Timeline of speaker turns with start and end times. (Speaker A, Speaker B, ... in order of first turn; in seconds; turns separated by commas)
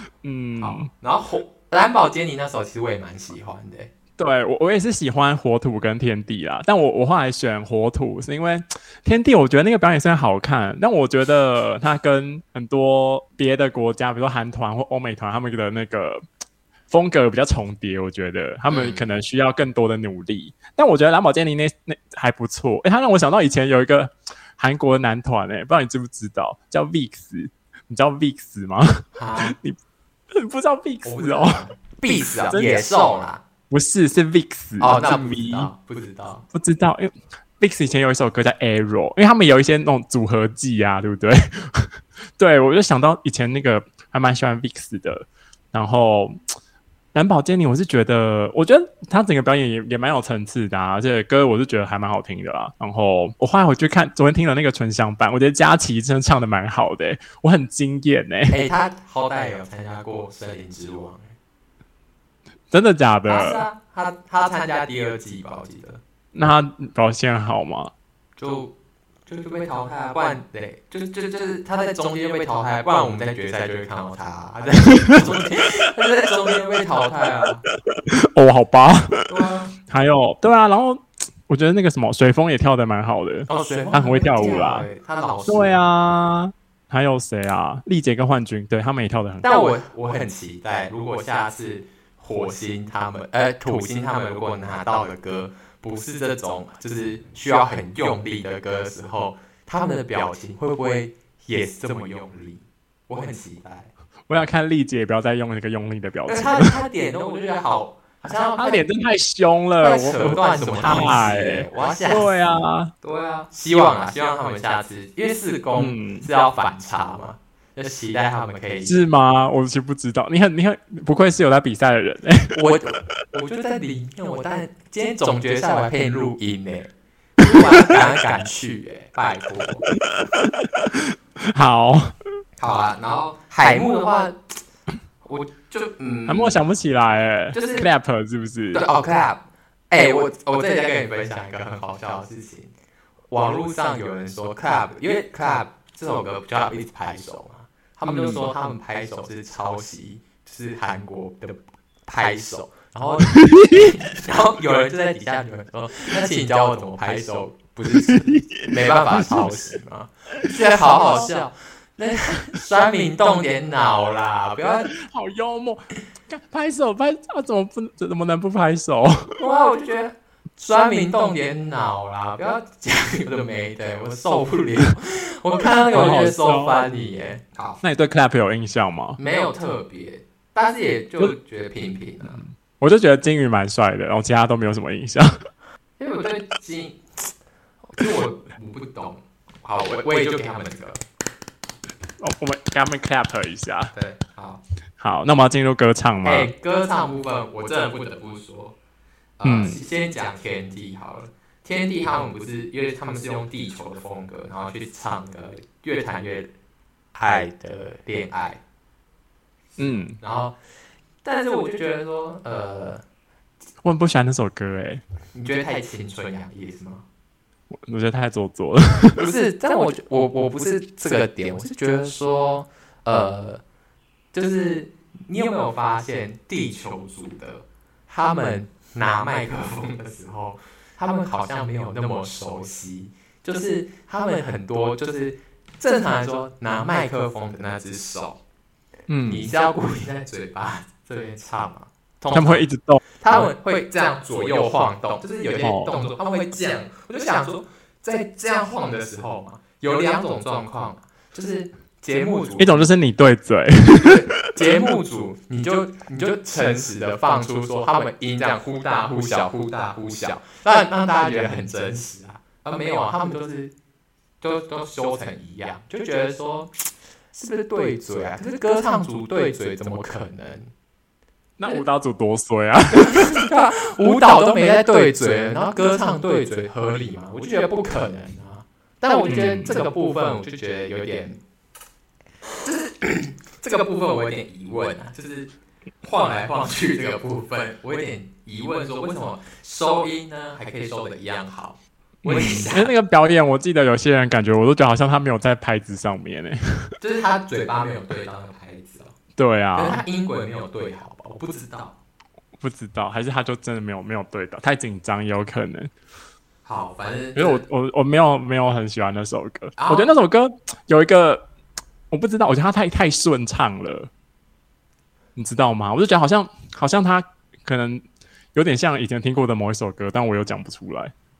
Speaker A: 0.2-0.9, Speaker B: 0.6-3.9, Speaker A: 4.2-16.2, Speaker A: 16.9-29.8, Speaker B: 18.7-19.1, Speaker B: 29.2-29.6, Speaker A: 30.3-32.9, Speaker B: 31.0-33.4, Speaker A: 33.7-35.7, Speaker B: 34.8-36.5, Speaker A: 36.5-46.4, Speaker A: 47.1-58.6, Speaker B: 58.5-61.4, Speaker A: 62.7-63.6, Speaker B: 63.3-66.0, Speaker A: 66.3-67.9, Speaker B: 68.4-68.7, Speaker B: 69.3-77.6, Speaker A: 77.9-79.3, Speaker B: 79.3-79.7, Speaker A: 79.9-84.9, Speaker B: 83.5-85.8, Speaker A: 85.5-89.7, Speaker B: 89.4-103.9, Speaker A: 104.3-106.8, Speaker B: 106.3-108.8, Speaker A: 108.6-112.9, Speaker B: 109.8-112.4, Speaker B: 113.0-119.0, Speaker A: 115.8-116.2, Speaker A: 118.9-122.6, Speaker B: 122.5-129.9, Speaker A: 130.1-132.2, Speaker B: 132.6-134.4, Speaker B: 135.2-136.6, Speaker A: 136.3-138.8, Speaker B: 137.5-137.9, Speaker B: 138.7-142.7, Speaker B: 143.3-164.9, Speaker A: 148.1-148.4, Speaker A: 153.4-153.9, Speaker A: 157.9-159.5, Speaker A: 160.4-161.3, Speaker A: 164.9-169.4, Speaker B: 169.4-177.8, Speaker A: 175.9-176.8, Speaker A: 177.8-179.2, Speaker B: 179.2-182.4, Speaker A: 182.4-185.4, Speaker B: 186.0-187.0, Speaker B: 187.9-191.0, Speaker A: 192.2-193.9, Speaker B: 193.9-194.6, Speaker A: 195.0-196.5, Speaker B: 196.2-198.8, Speaker B: 199.4-206.5, Speaker A: 199.4-199.8, Speaker B: 207.1-208.6, Speaker B: 209.8-210.6, Speaker A: 209.8-210.2, Speaker B: 211.2-213.0, Speaker A: 213.8-215.0, Speaker B: 215.3-217.1, Speaker A: 217.7-219.2, Speaker B: 219.2-223.6, Speaker B: 224.3-238.4, Speaker A: 239.1-239.5, Speaker B: 239.3-242.7, Speaker A: 242.3-243.5, Speaker B: 243.2-252.9, Speaker A: 245.6-245.9, Speaker A: 252.6-254.5, Speaker B: 254.0-263.7, Speaker B: 264.4-266.7, Speaker B: 267.3-270.7, Speaker A: 271.6-273.4, Speaker B: 273.0-281.4, Speaker A: 279.3-279.8, Speaker B: 282.6-285.5, Speaker B: 286.0-292.9, Speaker A: 292.2-296.9, Speaker B: 297.0-299.1, Speaker A: 299.4-300.0, Speaker B: 299.8-301.9, Speaker A: 302.6-305.9, Speaker B: 306.6-307.6, Speaker A: 307.4-311.5, Speaker B: 309.8-310.1, Speaker A: 312.1-314.1, Speaker A: 315.4-321.1